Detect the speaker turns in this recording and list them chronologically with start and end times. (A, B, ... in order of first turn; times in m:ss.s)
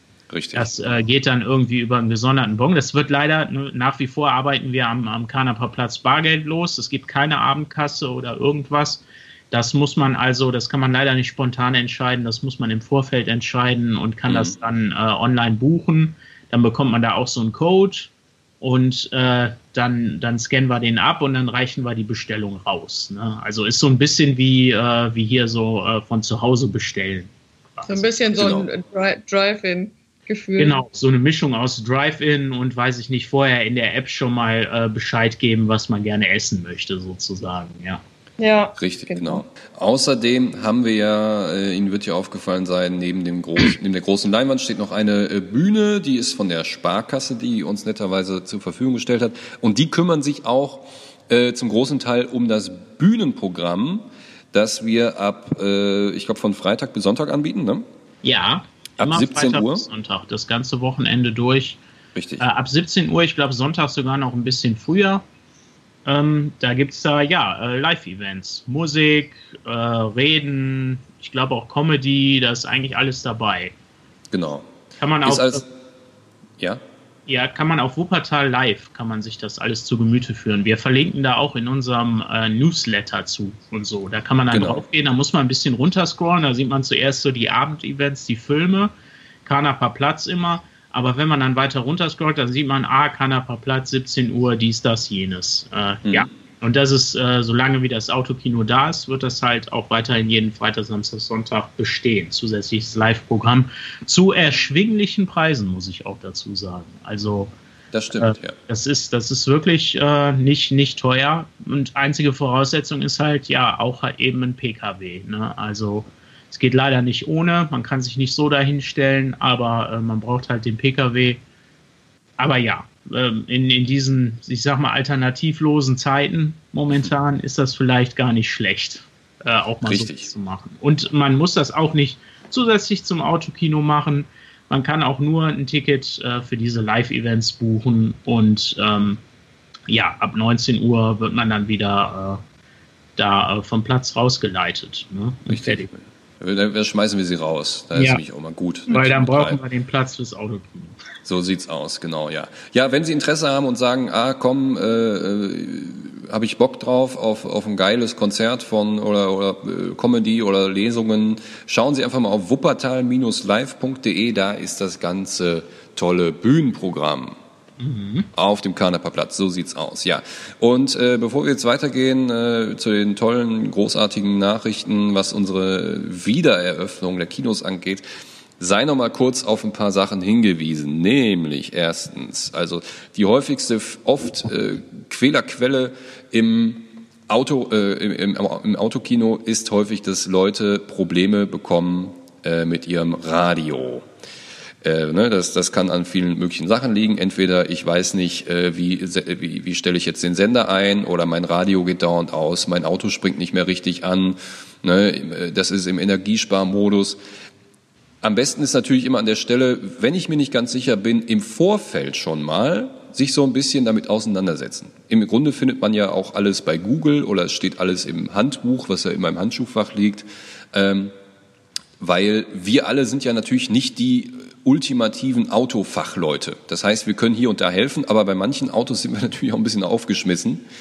0:00.3-0:00.7 A
0:00.5-0:28.1 B
0:14.3-0:14.5 A
0:27.9-0:30.8 C
0:28.4-0:28.7 A
0:30.6-0:38.0 B
0:38.4-0:39.4 C
0:38.8-0:57.8 A
0:58.2-1:01.8 B
0:59.0-0:59.9 A
1:02.1-1:02.4 A
1:02.4-1:05.2 B
1:06.0-1:13.7 B
1:14.3-1:14.7 A
1:15.0-1:15.6 B
1:15.2-1:15.6 A
1:17.3-1:28.9 B
1:24.5-1:24.8 A
1:29.4-1:47.5 B
1:47.9-1:48.5 A
1:48.1-2:01.4 B
2:02.4-2:19.2 B
2:09.8-2:10.3 A
2:19.9-2:22.4 B
2:23.2-2:25.9 B
2:25.5-2:29.6 A
2:27.9-2:28.2 B
2:28.9-2:31.0 B
2:31.2-2:47.4 A
2:47.8-2:48.3 B
2:48.3-2:58.0 A
2:58.6-3:14.0 A
3:14.8-3:27.2 A
3:28.2-3:41.1 A
3:42.0-3:50.6 A